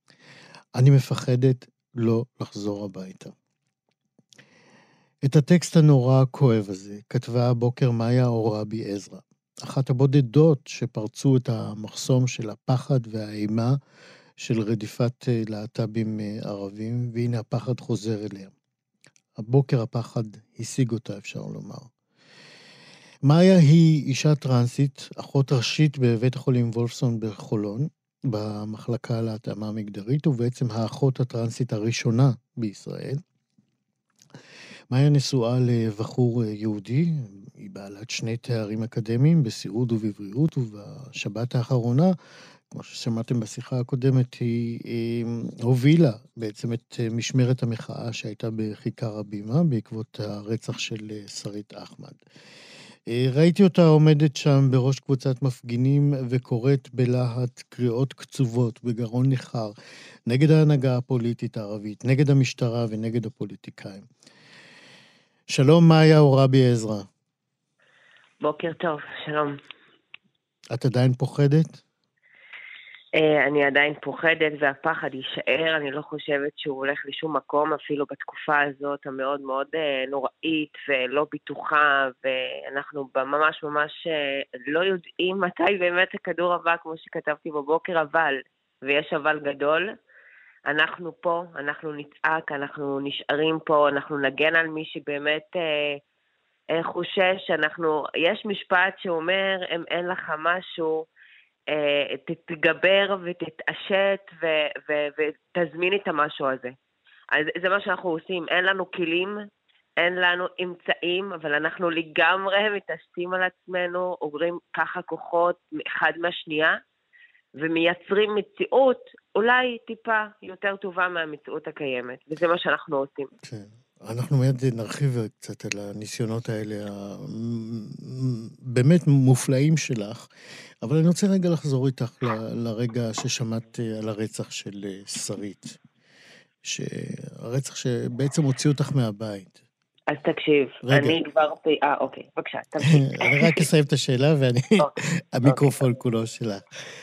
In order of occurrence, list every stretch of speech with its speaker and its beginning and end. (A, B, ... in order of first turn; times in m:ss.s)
0:00.8-0:03.3 A
0:05.2-0:13.8 A
0:14.4-0:18.5 A
0:19.4-0:21.9 A
0:23.2-0:33.2 A
0:34.9-0:42.1 A
0:42.7-0:52.2 A
0:53.1-0:59.7 A
1:00.3-1:04.1 A
1:05.5-1:07.1 A
1:08.4-1:09.6 B
1:10.7-1:11.8 A
1:13.2-1:29.9 B
1:30.7-1:36.0 B
1:36.7-1:41.1 B
1:41.7-1:46.8 B
1:47.3-1:49.4 B
1:50.0-1:56.8 B
1:57.6-2:03.3 B
2:03.4-2:10.3 A
2:10.8-2:15.8 A
2:16.6-2:19.6 A
2:20.1-2:23.6 B
2:20.8-2:21.2 A
2:22.9-2:26.6 A
2:25.5-2:25.8 B